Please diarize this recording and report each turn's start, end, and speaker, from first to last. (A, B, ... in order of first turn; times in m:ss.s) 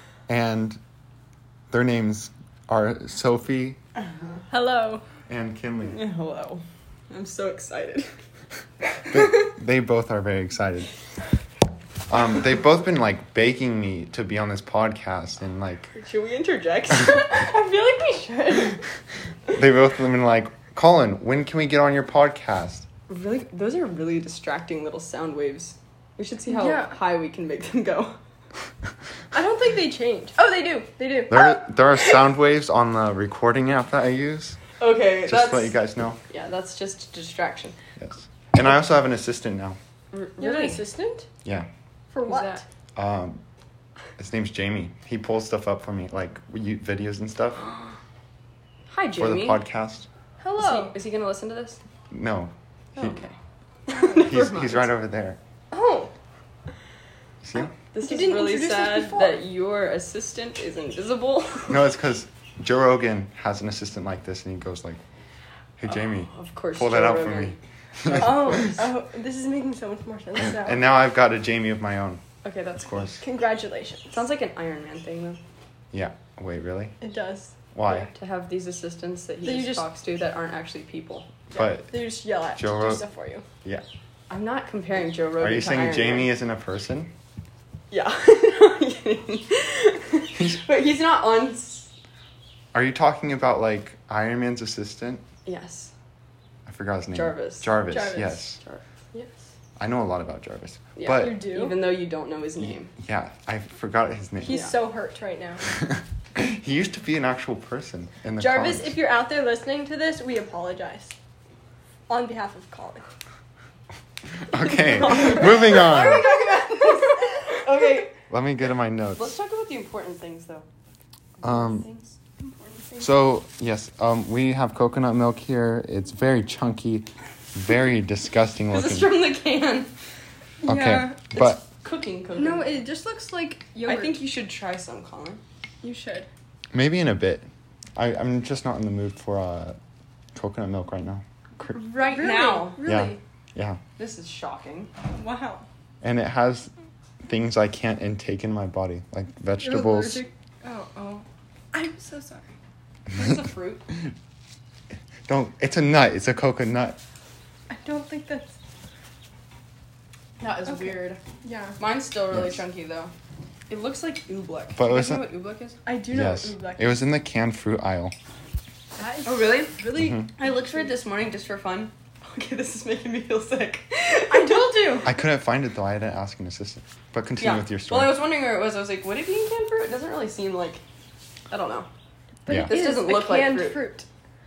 0:00.3-0:00.8 A
0:01.7-0:03.8 A
0:04.5-0:05.0 B
0:05.3-0:06.0 A
0:05.8-0:08.2 C
0:09.1-0:10.9 A
0:12.1-0:15.9 A
0:15.9-0:17.5 C
0:17.1-0:18.8 B
0:19.5-0:22.8 A
0:23.1-0:28.2 C
0:26.5-0:26.9 B
0:29.3-0:31.5 B
0:30.4-0:30.7 C
0:31.3-0:34.6 A
0:34.8-0:35.7 C
0:35.2-0:36.2 A
0:36.3-0:37.8 C
0:38.0-0:39.8 A
0:40.1-0:40.8 C
0:40.4-0:41.3 B
0:42.1-0:42.6 B
0:42.2-0:42.6 C
0:43.0-0:43.4 A
0:44.2-0:47.6 A
0:48.9-0:49.6 C
0:49.2-0:50.1 A
0:50.4-0:50.9 B
0:50.6-0:51.8 C
0:52.1-0:53.2 A
0:52.9-0:53.3 C
0:53.9-0:54.9 C
0:54.0-0:54.3 B
0:54.2-0:55.4 A
0:55.7-0:56.1 B
0:57.4-0:57.7 A
0:57.7-1:01.8 C
0:58.0-0:59.4 B
1:01.7-1:05.0 A
1:05.8-1:08.7 A
1:05.9-1:08.9 C
1:08.1-1:10.8 B
1:10.5-1:12.2 A
1:12.4-1:13.1 C
1:12.8-1:13.2 A
1:13.2-1:14.2 B
1:14.1-1:15.4 C
1:15.9-1:17.0 A
1:17.0-1:17.5 B
1:17.7-1:18.1 A
1:17.9-1:21.5 C
1:19.4-1:19.8 B
1:21.5-1:22.0 A
1:21.9-1:23.4 B
1:22.5-1:23.0 A
1:24.3-1:26.3 C
1:25.4-1:27.1 A
1:27.9-1:31.9 C
1:32.7-1:35.2 A
1:35.4-1:35.9 C
1:36.6-1:38.6 A
1:37.1-1:37.7 C
1:37.9-1:38.4 B
1:38.6-1:39.2 C
1:39.8-1:41.4 A
1:41.0-1:42.9 C
1:41.1-1:41.8 B
1:43.0-1:44.6 A
1:44.4-1:45.6 B
1:44.4-1:44.7 C
1:45.6-1:48.9 A
1:48.4-1:51.1 B
1:52.1-1:53.0 B
1:54.4-1:56.2 A
1:54.6-1:58.1 C
1:55.1-1:57.7 B
1:58.3-1:59.4 A
1:59.2-2:00.7 C
2:01.4-2:02.2 C
2:01.4-2:01.9 A
2:02.6-2:03.0 B
2:03.0-2:09.1 A
2:08.7-2:09.9 C
2:10.6-2:11.2 B
2:10.6-2:11.6 A
2:11.4-2:12.8 C
2:12.4-2:14.1 B
2:13.8-2:15.4 C
2:15.8-2:16.3 B
2:16.7-2:19.8 A
2:20.4-2:21.7 A
2:21.6-2:23.2 B
2:21.8-2:22.8 C
2:22.8-2:23.8 A
2:24.0-2:24.9 C
2:25.1-2:25.7 B
2:26.0-2:26.7 A
2:27.2-2:30.2 A
2:29.6-2:32.4 B
2:33.1-2:33.9 C
2:35.3-2:37.0 A
2:37.7-2:38.6 B
2:40.4-2:41.2 C
2:40.7-2:41.8 B
2:41.8-2:43.1 C
2:43.7-2:45.8 C
2:44.7-2:45.3 A
2:45.8-2:47.0 B
2:46.1-2:48.1 A
2:49.0-2:50.7 B
2:49.2-2:55.1 C
2:49.9-2:50.3 A
2:54.3-2:55.1 B
2:55.0-2:58.2 A
2:57.4-3:00.8 C
3:01.5-3:01.9 C
3:02.4-3:04.0 B
3:02.5-3:02.7 A
3:02.5-3:03.8 C